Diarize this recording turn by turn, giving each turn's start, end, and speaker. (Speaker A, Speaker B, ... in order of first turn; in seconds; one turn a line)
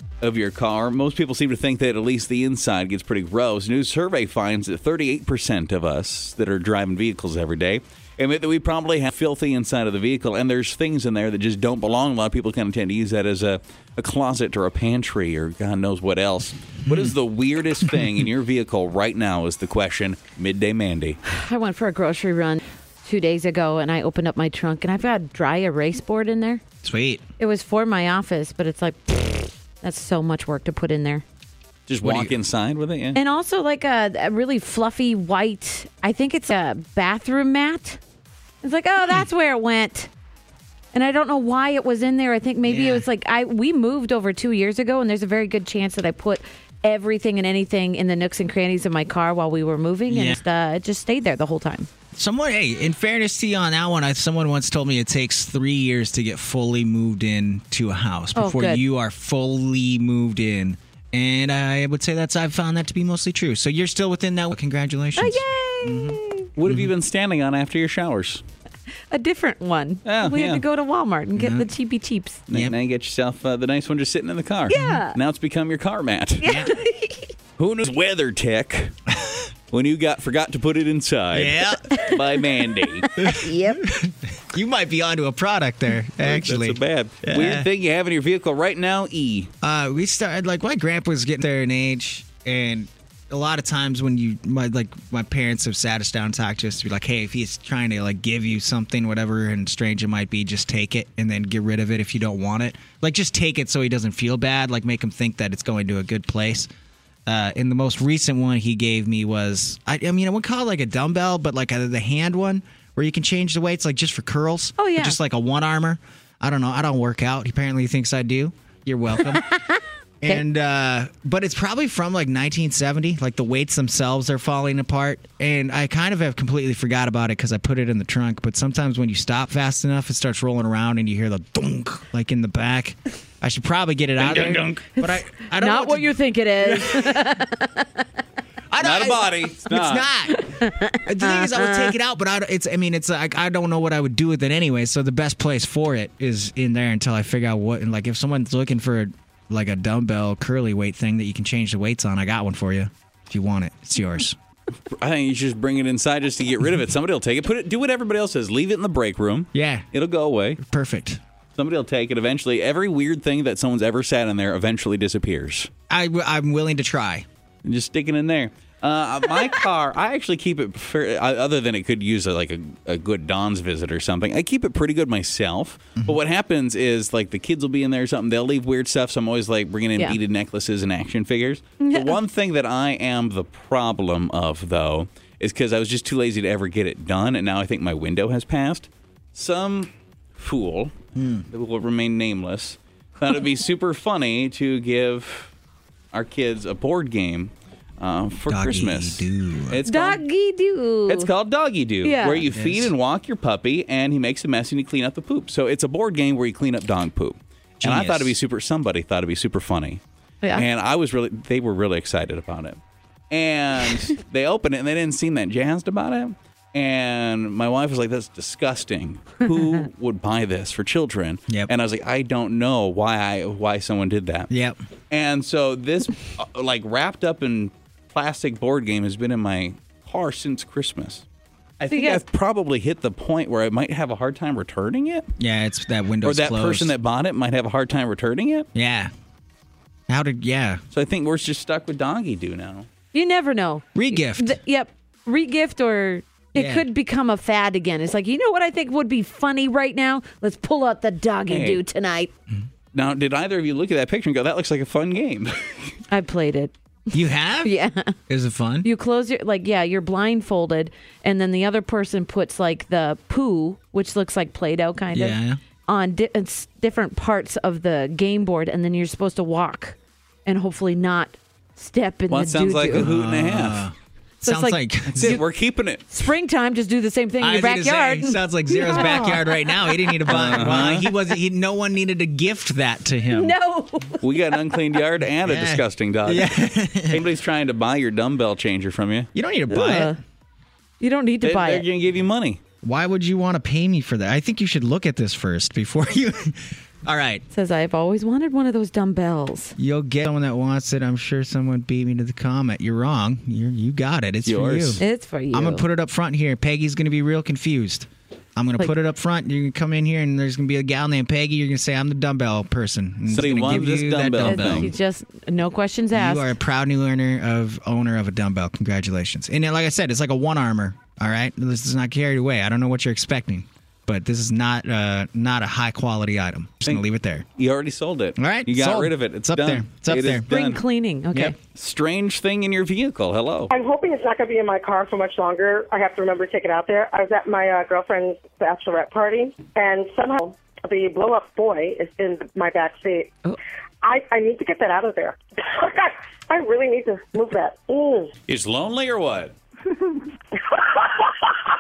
Speaker A: 0.2-21.2
Speaker B: 16.9-17.1
Speaker C: 21.3-26.6
Speaker B: 26.8-27.2
Speaker C: 27.4-31.2
Speaker A: 31.9-33.2
Speaker B: 32.0-32.3
Speaker C: 33.1-38.0
Speaker C: 38.6-40.1
Speaker C: 40.9-51.9
Speaker B: 42.6-43.1
Speaker B: 50.1-50.4
Speaker B: 52.1-66.9
Speaker C: 58.4-58.8
Speaker C: 65.2-66.5
Speaker A: 66.6-68.4
Speaker C: 69.1-72.4
Speaker A: 70.0-70.6
Speaker B: 71.4-71.7
Speaker A: 72.5-76.5
Speaker C: 74.7-75.2
Speaker B: 74.8-75.0
Speaker C: 76.4-77.3
Speaker B: 76.5-76.7
Speaker A: 77.6-78.9
Speaker B: 79.1-79.4
Speaker A: 79.7-83.1
Speaker B: 81.3-81.8
Speaker C: 81.9-82.2
Speaker C: 83.0-83.8
Speaker B: 83.2-87.7
Speaker A: 86.2-89.5
Speaker B: 89.6-106.7
Speaker B: 107.3-119.5
Speaker C: 114.8-115.2
Speaker C: 119.2-120.4
Speaker B: 120.2-137.3
Speaker A: 134.2-134.9
Speaker C: 135.0-138.1
Speaker B: 138.7-154.4
Speaker A: 138.8-140.1
Speaker C: 140.3-141.9
Speaker A: 154.9-160.6
Speaker B: 159.5-159.9
Speaker B: 160.6-161.2
Speaker A: 161.6-165.7
Speaker B: 165.9-167.2
Speaker A: 167.7-190.9
Speaker C: 181.8-182.2
Speaker B: 191.2-191.5
Speaker A: 191.5-195.5
Speaker A: 196.1-200.2
Speaker B: 198.5-199.8
Speaker C: 199.8-201.3
Speaker A: 201.1-210.0
Speaker C: 202.0-202.5
Speaker B: 202.5-202.9
Speaker B: 207.8-208.4
Speaker A: 210.5-212.8
Speaker A: 213.3-224.5
Speaker B: 224.5-224.8
Speaker A: 225.1-231.2
Speaker A: 231.8-235.3
Speaker C: 231.9-232.2
Speaker B: 235.4-236.9
Speaker A: 236.2-238.7
Speaker B: 238.8-239.1
Speaker B: 240.1-240.8
Speaker A: 240.9-242.9
Speaker C: 243.1-252.3
Speaker B: 243.9-244.6
Speaker B: 246.6-246.8
Speaker A: 251.5-251.8
Speaker A: 252.9-256.0
Speaker C: 256.1-258.2
Speaker B: 257.1-257.8
Speaker B: 258.3-258.9
Speaker C: 258.8-273.1
Speaker B: 265.1-265.6
Speaker A: 272.3-273.9
Speaker B: 272.9-275.4
Speaker C: 274.4-275.4
Speaker A: 275.1-276.1
Speaker C: 276.1-280.5
Speaker B: 277.4-283.6
Speaker A: 280.3-281.1
Speaker C: 283.3-284.8
Speaker A: 284.2-286.5
Speaker B: 285.4-287.2
Speaker A: 287.1-289.3
Speaker B: 289.3-290.1
Speaker C: 289.7-290.2
Speaker C: 291.0-291.9
Speaker A: 291.4-292.6
Speaker B: 292.8-297.4
Speaker C: 297.5-299.8
Speaker B: 299.8-314.9
Speaker A: 304.5-305.0
Speaker C: 305.0-305.9
Speaker A: 313.3-314.9
Speaker C: 314.4-316.5
Speaker B: 316.1-327.4
Speaker A: 327.6-330.8
Speaker B: 328.4-330.5
Speaker C: 330.5-331.6
Speaker A: 331.8-333.7
Speaker D: 333.7-343.4
Speaker D: 344.0-348.3
Speaker A: 348.5-349.5
Speaker D: 350.6-351.6